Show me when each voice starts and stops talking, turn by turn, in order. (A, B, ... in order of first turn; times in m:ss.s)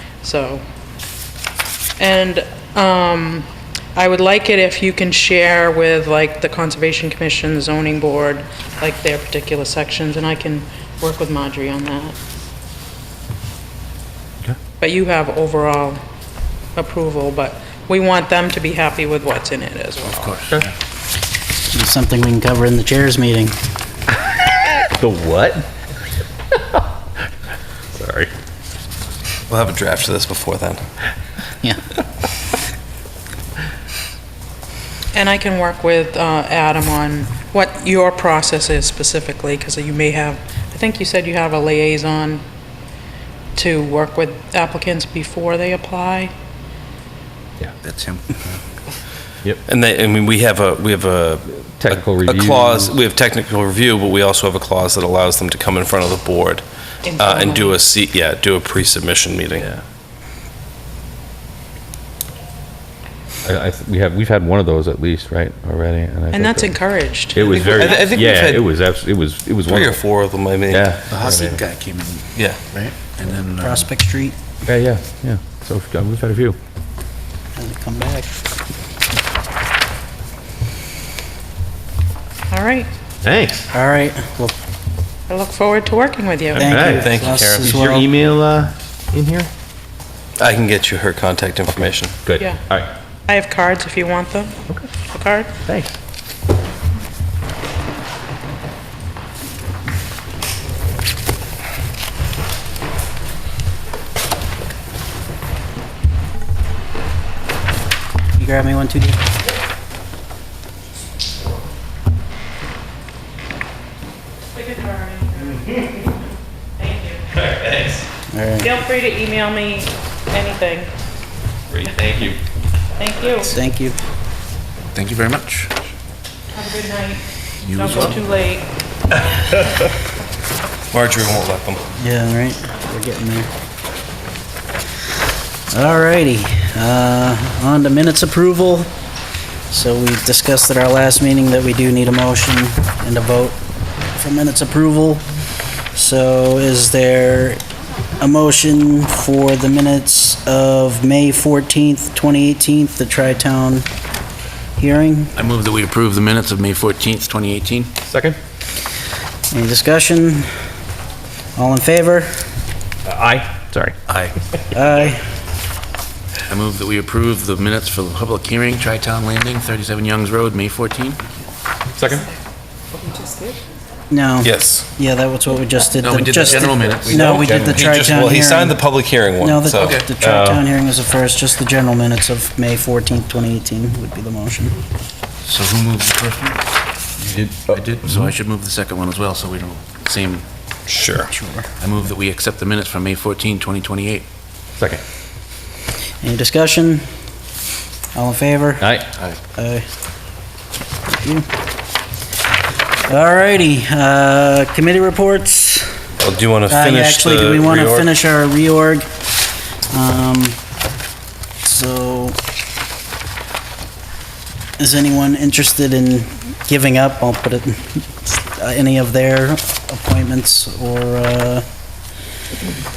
0:00.2-0:00.6 A
0:02.0-0:12.2 A
0:14.8-0:16.0 A
0:16.8-0:20.3 A
0:21.7-0:23.6 B
0:24.8-0:25.7 C
0:27.9-0:28.3 C
0:29.5-0:30.8 D
0:35.1-0:42.4 A
0:43.6-0:46.3 A
0:47.8-0:48.5 E
0:49.7-0:56.6 D
0:51.8-0:52.9 C
0:57.0-0:57.8 A
0:57.2-0:59.7 D
1:03.4-1:06.7 C
1:06.3-1:08.1 A
1:07.3-1:10.0 C
1:07.4-1:08.7 D
1:09.7-1:10.9 D
1:10.7-1:11.6 C
1:11.1-1:13.8 E
1:13.6-1:14.4 B
1:14.6-1:16.6 C
1:17.6-1:18.4 B
1:22.5-1:22.9 A
1:23.2-1:23.7 C
1:23.7-1:24.5 B
1:25.3-1:26.8 A
1:26.5-1:29.5 C
1:26.6-1:28.1 B
1:26.9-1:27.7 D
1:30.4-1:32.2 D
1:32.2-1:32.9 C
1:33.3-1:34.6 A
1:35.1-1:35.5 A
1:35.7-1:35.9 C
1:48.4-1:49.2 B
1:54.5-1:55.7 A
1:56.8-1:57.3 A
1:57.3-1:58.0 C
1:58.3-1:58.7 B
1:58.6-2:00.9 A
2:01.7-2:02.4 C
2:03.0-2:03.5 A
2:03.4-2:04.0 B
2:04.9-2:05.7 E
2:06.5-2:08.6 A
2:07.7-2:08.1 E
2:10.9-2:11.8 D
2:12.0-2:13.5 B
2:15.7-2:18.9 B
2:19.7-2:23.6 B
2:24.2-2:25.2 B
2:26.0-2:27.6 B
2:28.2-2:33.9 B
2:34.8-2:35.3 B
2:35.4-2:37.9 E
2:38.1-2:38.4 C
2:39.5-2:40.5 B
2:41.6-2:42.5 B
2:43.0-2:44.0 C
2:44.1-2:44.4 E
2:44.7-2:45.3 B
2:46.5-2:51.4 E
2:52.0-2:52.3 C
2:52.9-2:53.6 A
2:54.1-2:58.8 B
2:54.4-2:54.9 D
2:56.0-2:57.3 E
2:57.0-2:58.0 C
2:57.6-3:00.0 D
2:59.4-3:04.8 B
3:00.2-3:00.6 C
3:05.5-3:06.6 E
3:07.2-3:08.3 C
3:07.7-3:10.4 E
3:10.9-3:11.3 D
3:11.3-3:11.7 B
3:11.8-3:14.2 E
3:16.2-3:17.1 B
3:18.1-3:19.0 B
3:18.8-3:19.1 C
3:19.5-3:19.8 B
3:21.1-3:21.5 B
3:23.1-3:25.9 B
3:26.2-3:28.1 D
3:26.7-3:29.0 B
3:29.9-3:30.6 B
3:31.6-3:32.4 B
3:34.8-3:41.6 B